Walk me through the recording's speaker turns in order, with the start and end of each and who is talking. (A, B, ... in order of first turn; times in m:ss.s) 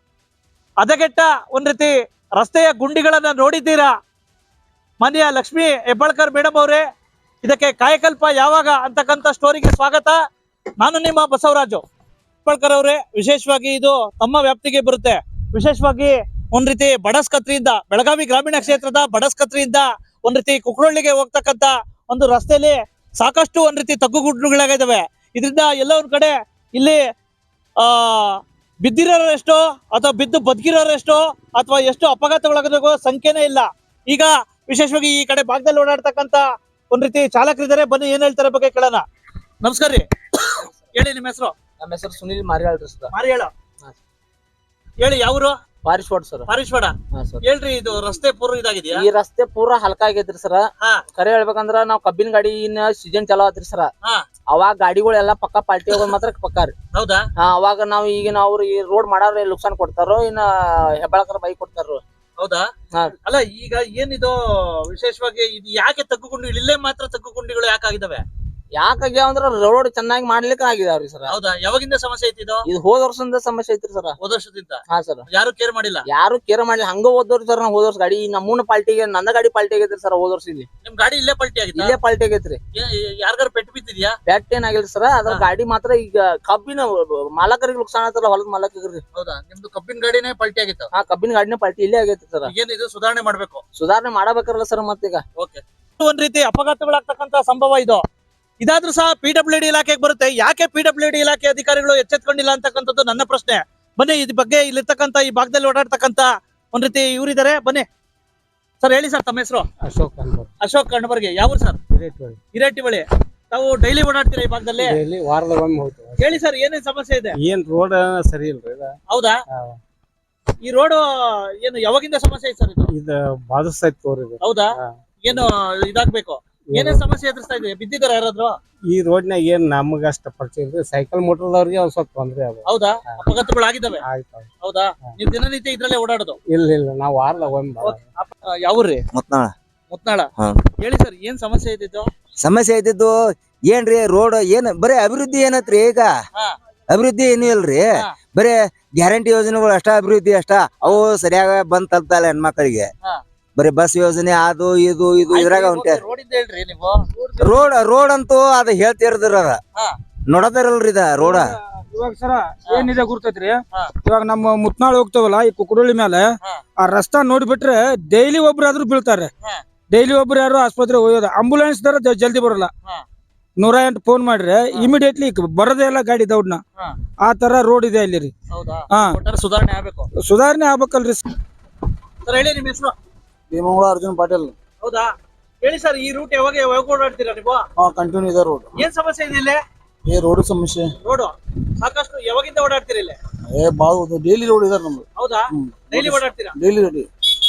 0:00.8-0:03.9 A
0:05.0-0:06.8 A
0:07.4-0:10.2 A
0:10.8-0:11.8 A
0:12.4-0:27.0 A
0:27.8-0:39.0 A
0:39.6-0:41.6 A
0:41.8-0:43.1 B
0:43.1-0:43.5 A
0:45.0-0:45.6 A
0:45.8-0:46.5 B
0:46.5-0:49.0 A
0:47.1-0:47.4 B
0:48.9-0:53.9 B
0:54.5-0:56.8 B
0:56.9-0:57.2 A
0:57.4-1:02.0 B
1:02.4-1:02.7 A
1:03.2-1:08.2 A
1:08.7-1:11.4 B
1:11.3-1:12.6 A
1:12.7-1:14.2 B
1:14.2-1:16.0 A
1:14.9-1:15.2 B
1:16.1-1:20.7 B
1:20.8-1:22.0 A
1:21.7-1:22.6 B
1:22.7-1:24.2 A
1:24.3-1:29.0 B
1:29.1-1:30.9 A
1:30.9-1:32.5 B
1:32.5-1:33.6 A
1:33.8-1:35.2 B
1:35.4-1:38.0 A
1:38.6-1:47.9 A
1:48.8-1:49.6 A
1:49.8-1:50.5 C
1:50.6-1:51.8 A
1:52.0-1:52.4 C
1:52.5-1:55.0 A
1:54.9-1:56.4 C
1:56.2-1:57.4 A
1:57.4-1:58.9 C
1:59.1-1:59.4 A
2:00.6-2:01.0 A
2:01.6-2:02.9 A
2:03.0-2:04.4 C
2:04.4-2:04.7 A
2:05.2-2:08.6 A
2:08.9-2:12.6 C
2:12.7-2:14.0 A
2:14.1-2:14.4 C
2:14.6-2:16.4 A
2:16.5-2:18.0 C
2:17.8-2:19.0 A
2:19.1-2:19.5 D
2:19.9-2:22.1 A
2:22.4-2:26.1 D
2:26.9-2:32.9 D
2:33.6-2:36.0 D
2:35.3-2:37.1 A
2:37.4-2:39.6 D
2:40.3-2:41.5 D
2:41.2-2:49.3 E
2:42.7-2:42.9 A
2:49.9-2:52.7 E
2:53.6-2:56.6 E
2:57.2-2:58.3 E
2:58.5-3:00.1 A
2:58.9-2:59.2 E
3:00.2-3:01.3 E
3:02.2-3:03.0 A
3:03.5-3:04.5 F
3:04.8-3:05.1 A
3:05.6-3:07.6 A
3:07.8-3:08.7 F
3:08.8-3:09.6 A
3:10.1-3:10.9 F
3:11.0-3:13.2 A
3:13.5-3:15.0 F
3:15.2-3:16.6 A
3:15.6-3:17.1 F